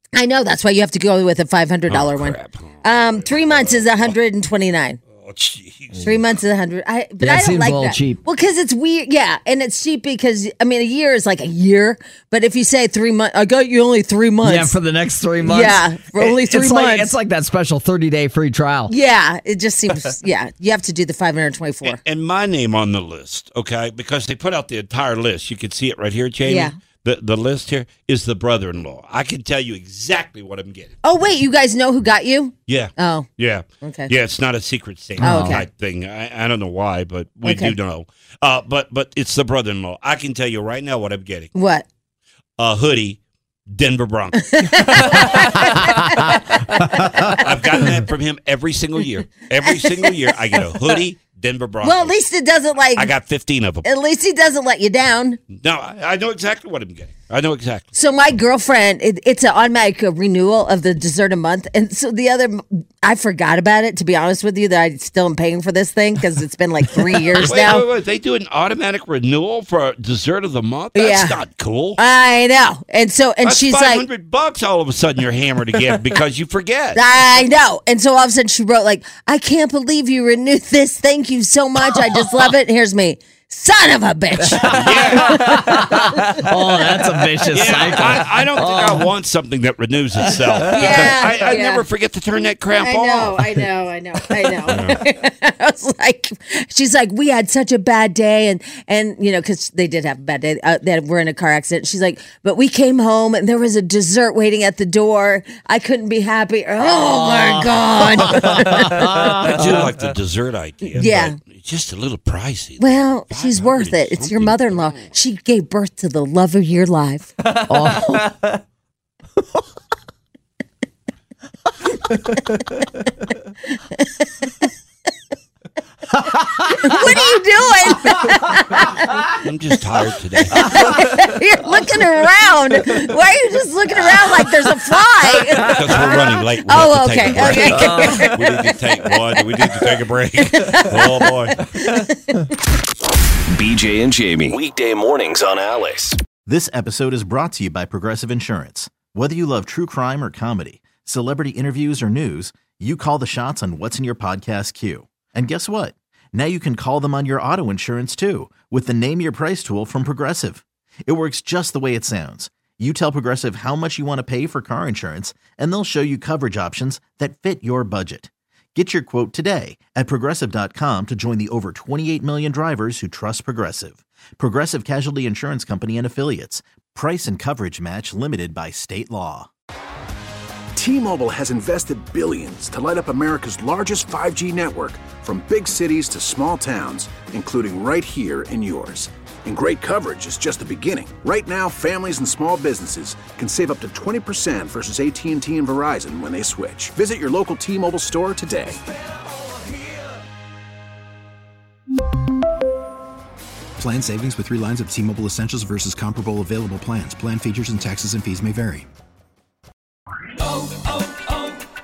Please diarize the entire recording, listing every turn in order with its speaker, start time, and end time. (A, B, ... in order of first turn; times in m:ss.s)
0:00.1-0:05.0 A
0:01.9-0:04.2 B
0:05.2-0:06.4 B
0:06.0-0:14.8 A
0:07.2-0:08.2 C
0:14.4-0:18.9 C
0:15.4-0:17.1 A
0:18.9-0:22.0 A
0:21.8-0:30.9 B
0:26.5-0:26.7 A
0:31.0-0:33.3 A
0:32.7-0:41.5 B
0:33.8-0:34.1 A
0:35.2-0:35.6 A
0:35.2-0:35.6 C
0:37.4-0:37.8 A
0:41.5-0:41.9 A
0:42.6-0:52.2 B
0:44.4-0:47.8 A
0:49.6-0:50.9 A
0:51.8-0:53.1 A
0:53.0-0:53.9 B
0:53.8-0:55.4 A
0:55.5-0:57.9 B
0:57.9-1:07.9 A
1:07.4-1:12.0 B
1:11.0-1:11.4 A
1:12.0-1:14.1 A
1:13.4-1:17.0 B
1:17.0-1:26.4 A
1:24.4-1:29.1 C
1:24.6-1:25.8 B
1:27.5-1:33.5 B
1:30.4-1:30.9 C
1:30.7-1:31.9 A
1:32.8-1:49.6 A
1:34.6-1:35.0 B
1:47.0-1:49.8 C
1:49.3-1:55.1 B
1:50.9-1:51.4 A
1:52.8-1:57.3 A
1:57.4-1:58.6 C
2:04.0-2:04.5 A
2:06.7-2:09.3 A
2:09.4-2:11.1 B
2:10.4-2:19.9 A
2:15.5-2:21.6 B
2:17.7-2:18.3 C
2:20.5-2:22.4 A
2:23.5-2:26.2 D
2:26.5-2:59.5 E
3:00.8-3:18.8 F
3:23.8-3:28.9 G